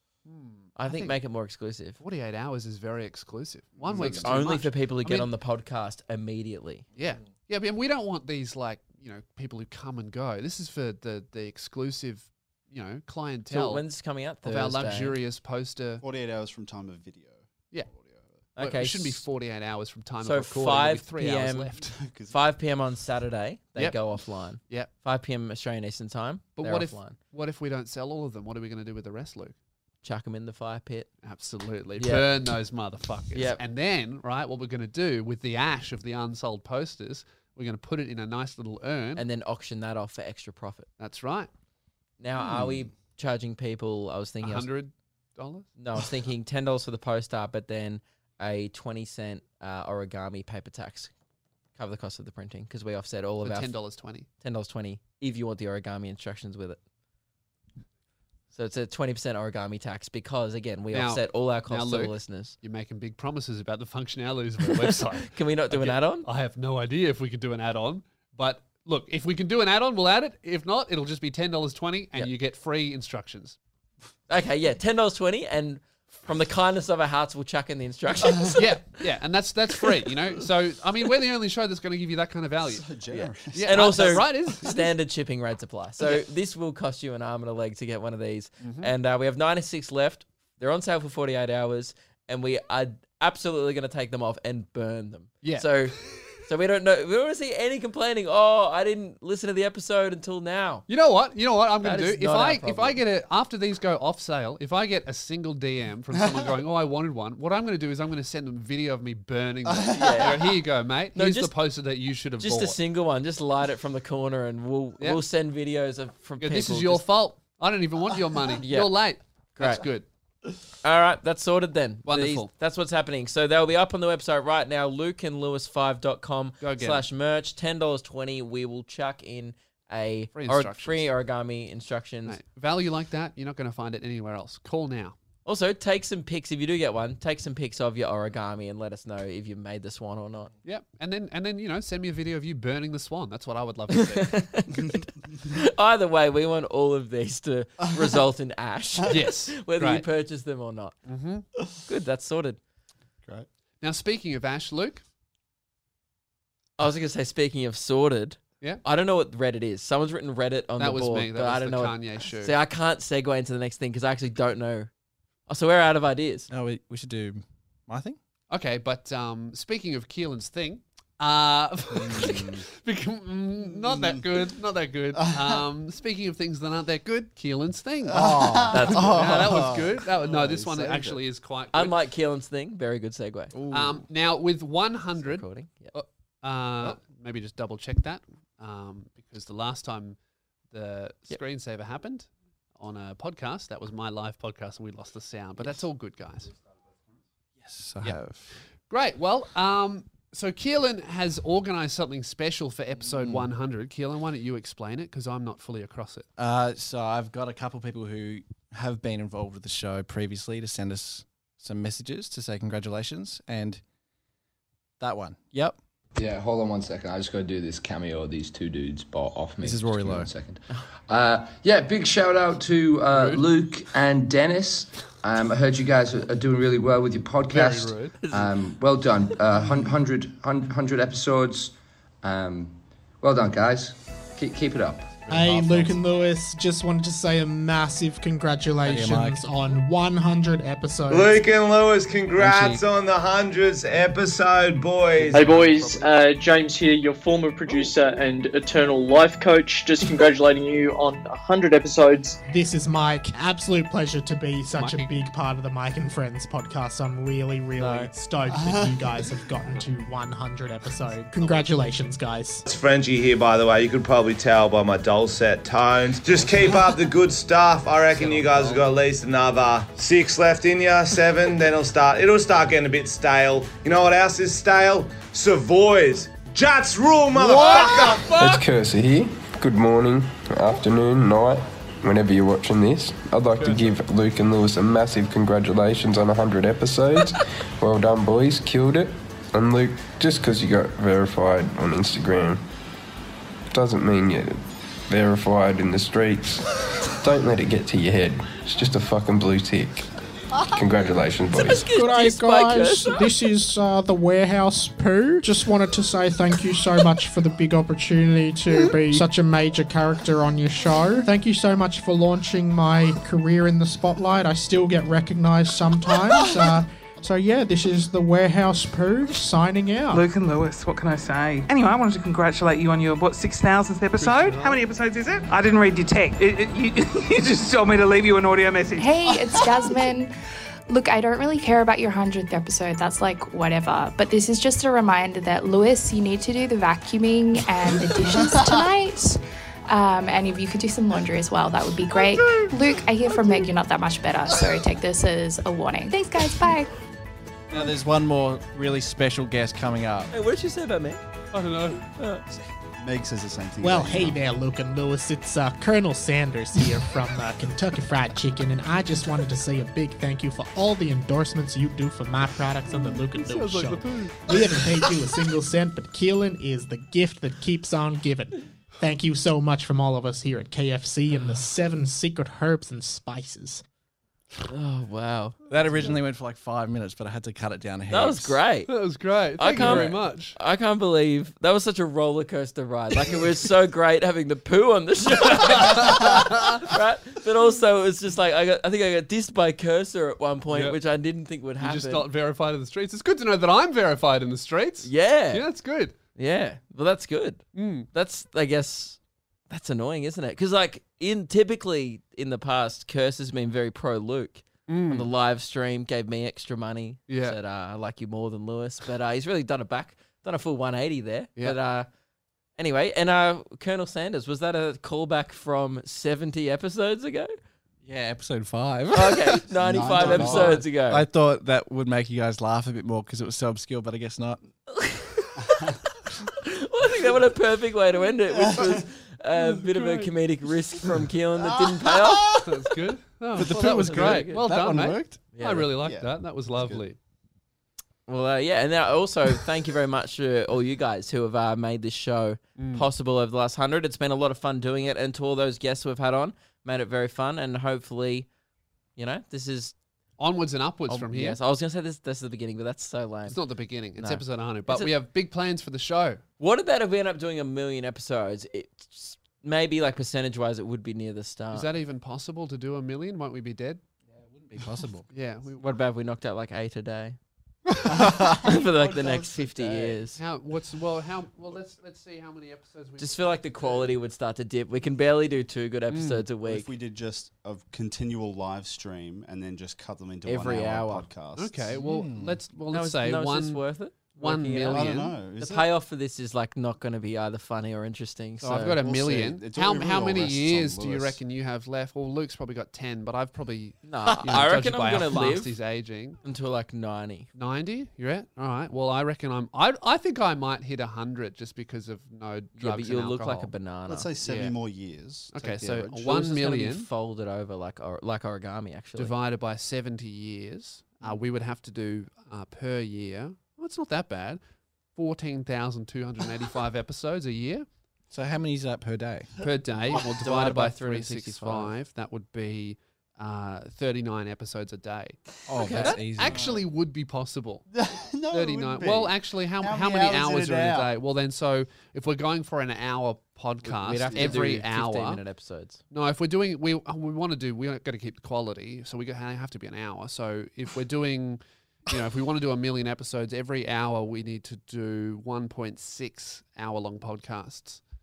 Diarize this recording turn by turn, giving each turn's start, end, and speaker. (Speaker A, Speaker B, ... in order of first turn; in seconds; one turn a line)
Speaker A: 0.3-1.2
Speaker B: 0.8-2.0
Speaker A: 2.0-5.3
Speaker C: 3.8-4.4
Speaker B: 4.0-6.8
Speaker A: 7.0-13.8
Speaker B: 13.5-15.2
Speaker A: 14.4-16.0
Speaker C: 16.0-18.3
Speaker B: 18.6-19.2
Speaker A: 18.6-21.9
Speaker B: 20.2-21.7
Speaker C: 21.8-22.4
Speaker B: 22.3-27.2
Speaker A: 24.6-24.9
Speaker A: 26.6-29.6
Speaker B: 30.0-31.1
Speaker A: 31.2-39.2
Speaker B: 32.0-32.3
Speaker B: 33.3-33.6
Speaker B: 39.2-40.9
Speaker A: 41.0-41.5
Speaker B: 42.2-44.7
Speaker C: 42.5-42.8
Speaker A: 44.4-45.7
Speaker B: 45.8-51.1
Speaker B: 51.8-53.7
Speaker A: 53.4-54.3
Speaker B: 54.4-56.8
Speaker B: 58.5-62.5
Speaker A: 60.9-73.6
Speaker B: 64.7-66.3
Speaker B: 74.3-78.6
Speaker A: 78.5-82.9
Speaker C: 82.6-84.3
Speaker B: 83.1-100.9
Speaker A: 83.5-84.9
Speaker A: 88.6-88.9
Speaker A: 95.4-95.7
Speaker A: 100.9-112.8
Speaker B: 101.8-103.0
Speaker C: 109.8-110.2
Speaker B: 109.9-110.4
Speaker B: 111.2-111.5
Speaker B: 112.4-117.0
Speaker A: 116.4-120.1
Speaker B: 118.6-118.9
Speaker B: 119.6-119.8
Speaker B: 120.8-132.4
Speaker A: 122.1-122.5
Speaker A: 126.6-127.0
Speaker A: 130.3-131.1
Speaker A: 132.3-135.2
Speaker B: 135.4-140.5
Speaker A: 140.7-144.5
Speaker B: 143.9-150.9
Speaker A: 149.1-150.1
Speaker A: 151.1-151.5
Speaker B: 151.9-152.6
Speaker A: 153.8-155.0
Speaker B: 156.8-164.9
Speaker A: 160.8-162.6
Speaker B: 165.5-166.5
Speaker D: 166.5-168.2
Speaker A: 168.5-182.0
Speaker D: 172.0-172.3
Speaker C: 172.1-172.5
Speaker C: 178.1-180.1
Speaker D: 178.1-181.2
Speaker B: 178.7-179.1
Speaker B: 181.7-183.5
Speaker D: 183.5-184.0
Speaker A: 183.7-190.2
Speaker B: 185.2-185.9
Speaker A: 190.7-196.5
Speaker D: 197.6-198.5
Speaker A: 198.9-206.3
Speaker D: 203.1-203.5
Speaker D: 206.4-213.8
Speaker D: 215.0-215.8
Speaker E: 216.2-235.2
Speaker D: 219.6-220.3
Speaker A: 223.1-223.4
Speaker A: 227.5-228.2
Speaker B: 228.2-228.5
Speaker D: 235.3-235.9
Speaker F: 235.3-241.4
Speaker D: 238.8-239.4
Speaker G: 241.1-246.0
Speaker A: 242.4-242.8
Speaker A: 245.2-246.1
Speaker H: 245.3-252.4
Speaker F: 252.5-262.7
Speaker A: 254.7-255.1
Speaker B: 257.8-258.1
Speaker C: 258.5-259.2
Speaker G: 262.7-278.5
Speaker A: 268.1-268.9
Speaker A: 277.7-278.4
Speaker I: 278.4-292.6
Speaker I: 293.7-300.1
Speaker I: 300.7-301.8
Speaker B: 301.5-303.2
Speaker F: 301.8-320.2
Speaker J: 320.1-329.1
Speaker A: 324.2-324.8
Speaker K: 329.0-330.3
Speaker K: 330.9-346.9
Speaker D: 347.7-350.3
Speaker B: 350.3-351.2
Speaker A: 351.5-352.1
Speaker B: 352.2-352.4
Speaker C: 353.0-354.4
Speaker F: 353.8-373.8
Speaker A: 362.9-364.6
Speaker B: 374.7-375.6
Speaker D: 375.7-378.6
Speaker B: 378.1-378.9
Speaker A: 378.9-380.6
Speaker B: 379.6-392.3
Speaker D: 379.7-380.1
Speaker A: 385.4-386.9
Speaker A: 390.7-391.0
Speaker A: 391.8-396.1
Speaker B: 395.0-395.6
Speaker B: 396.4-399.2
Speaker A: 397.8-398.1
Speaker B: 399.7-412.1
Speaker A: 404.9-405.3
Speaker A: 407.3-407.6
Speaker B: 412.8-417.5
Speaker D: 418.1-424.6
Speaker B: 419.1-421.2
Speaker C: 419.7-420.8
Speaker B: 424.9-432.8
Speaker C: 428.5-428.9
Speaker A: 429.5-430.3
Speaker C: 431.8-432.4
Speaker A: 432.6-437.2
Speaker D: 433.6-435.4
Speaker B: 433.7-434.6
Speaker B: 435.5-435.9
Speaker C: 436.0-437.1
Speaker B: 438.3-448.5
Speaker A: 442.8-443.1
Speaker B: 449.2-449.9
Speaker A: 450.4-451.6
Speaker B: 451.1-453.6
Speaker A: 453.5-456.4
Speaker B: 454.2-455.1
Speaker B: 456.6-461.9
Speaker A: 461.7-464.0
Speaker D: 464.4-465.3
Speaker A: 465.3-465.8
Speaker B: 465.8-467.4
Speaker C: 468.1-470.2
Speaker D: 468.1-469.4
Speaker B: 468.4-470.4
Speaker A: 470.4-474.1
Speaker B: 473.2-476.9
Speaker A: 476.1-476.5
Speaker C: 476.6-482.0
Speaker B: 480.5-481.3
Speaker A: 481.6-483.8
Speaker D: 482.0-482.6
Speaker B: 482.9-489.0
Speaker A: 484.3-485.3
Speaker C: 484.9-485.9
Speaker A: 488.7-496.4
Speaker C: 488.8-491.4
Speaker B: 494.1-495.8
Speaker B: 496.4-497.5
Speaker A: 497.6-503.7
Speaker B: 502.8-504.3
Speaker C: 504.1-506.3
Speaker A: 504.4-504.8
Speaker A: 505.5-507.1
Speaker B: 506.2-509.3
Speaker A: 509.2-514.6
Speaker A: 515.2-517.9
Speaker D: 518.3-519.6
Speaker A: 519.6-525.4
Speaker B: 520.4-521.9
Speaker D: 525.7-526.6
Speaker B: 525.8-526.2
Speaker A: 526.0-527.9
Speaker C: 526.5-526.8
Speaker C: 527.9-531.1
Speaker A: 528.5-535.4
Speaker B: 533.9-536.0
Speaker C: 534.3-534.6
Speaker A: 536.1-548.0